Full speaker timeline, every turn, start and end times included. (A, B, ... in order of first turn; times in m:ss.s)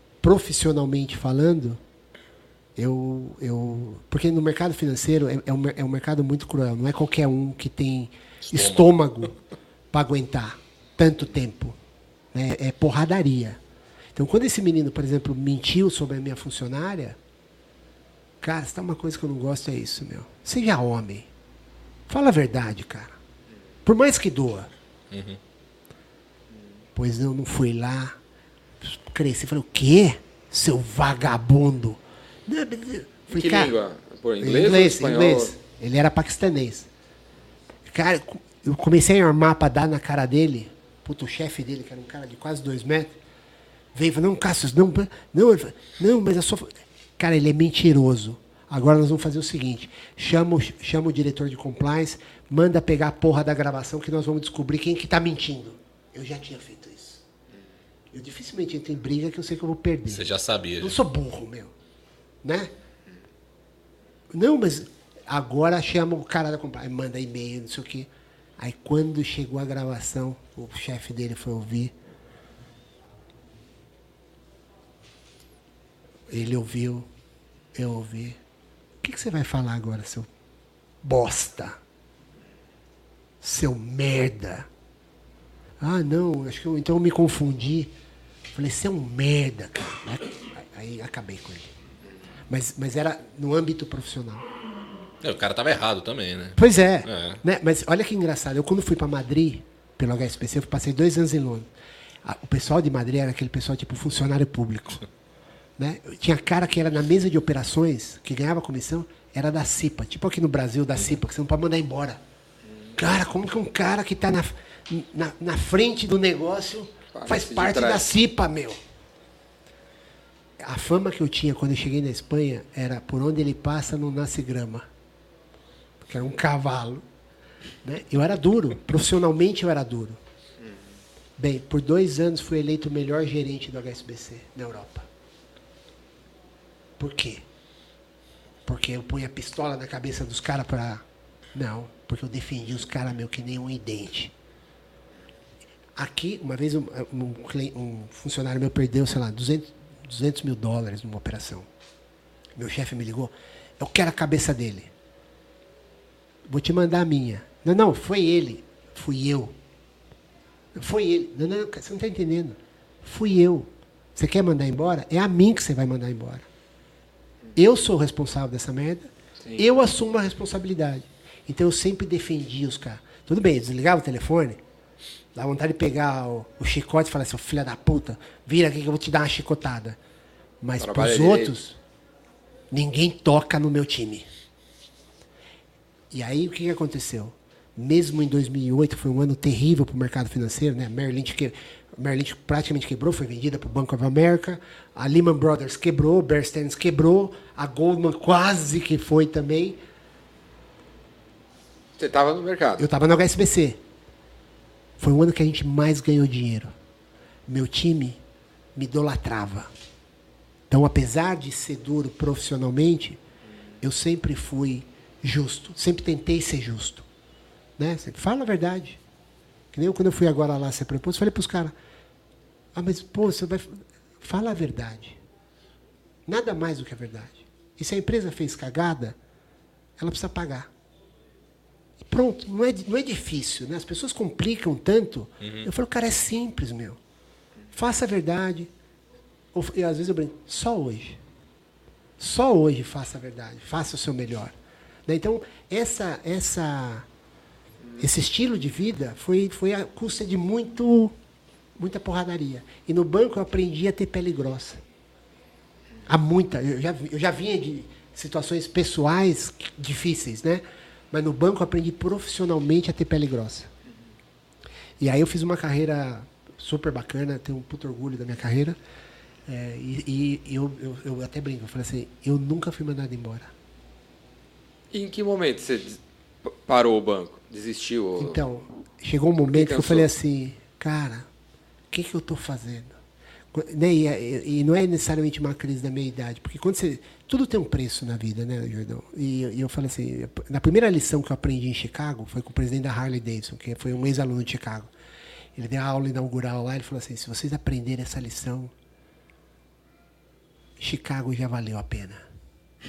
0:00.2-0:01.8 A
0:02.8-0:09.3 A
0:08.4-0:09.3 B
0:09.9-0:11.8 A
0:12.3-0:13.6 A
0:14.1-0:17.2 A
0:18.4-0:21.3 A
0:22.1-0:23.2 A
0:23.8-0:24.7 A
0:25.1-0:25.4 B
0:26.9-0:28.2 A
0:28.8-0:33.7 A
0:33.3-0:35.5 C
0:34.4-0:36.9 A
0:37.8-0:43.2 A
0:43.9-0:57.2 A
0:58.1-1:00.3 A
1:00.1-1:01.0 B
1:00.8-1:01.7 A
1:02.4-1:02.7 A
1:04.3-1:11.9 A
1:16.3-1:17.1 A
1:17.7-1:18.4 A
1:19.0-1:20.3 A
1:21.0-1:21.8 A
1:23.4-1:24.7 A
1:25.8-1:27.9 A
1:28.5-1:31.7 A
1:32.5-1:34.5 A
1:35.2-1:37.4 B
1:36.6-1:41.7 A
1:42.2-1:45.0 A
1:45.8-1:52.2 A
1:53.0-1:58.8 A
1:57.1-1:58.1 C
2:00.6-2:04.9 A
2:06.0-2:07.0 A
2:07.8-2:10.2 A
2:11.4-2:15.1 A
2:17.0-2:17.4 A
2:18.6-2:24.3 A
2:26.0-2:31.7 A
2:32.5-2:34.9 A
2:36.5-2:39.6 A
2:40.7-2:46.5 A
2:47.6-2:54.6 A
2:55.3-3:00.0 A
3:00.6-3:01.8 A
3:00.8-3:01.5 C
3:02.7-3:04.3 A
3:06.1-3:19.8 A
3:22.0-3:22.9 C
3:22.8-3:23.8 A
3:25.0-3:26.7 A
3:27.5-3:28.2 A
3:28.7-3:29.7 A
3:30.7-3:33.2 A
3:33.8-3:37.1 A
3:37.8-3:39.0 A
3:39.7-3:41.7 A
3:42.7-3:45.2 A
3:46.2-3:49.2 A
3:50.0-3:50.7 A
3:52.0-3:57.0 A
3:55.4-3:55.7 B
3:57.7-3:58.7 A
3:59.5-4:01.2 A
4:02.2-4:07.1 A
4:08.0-4:11.2 A
4:11.8-4:14.8 A
4:16.1-4:23.7 A
4:25.0-4:28.8 A
4:29.4-4:33.5 A
4:34.9-4:38.4 C
4:38.2-4:41.3 A
4:39.4-4:40.1 C
4:41.9-4:43.0 A
4:43.5-4:54.9 A
4:55.5-4:58.7 A
5:00.8-5:02.3 A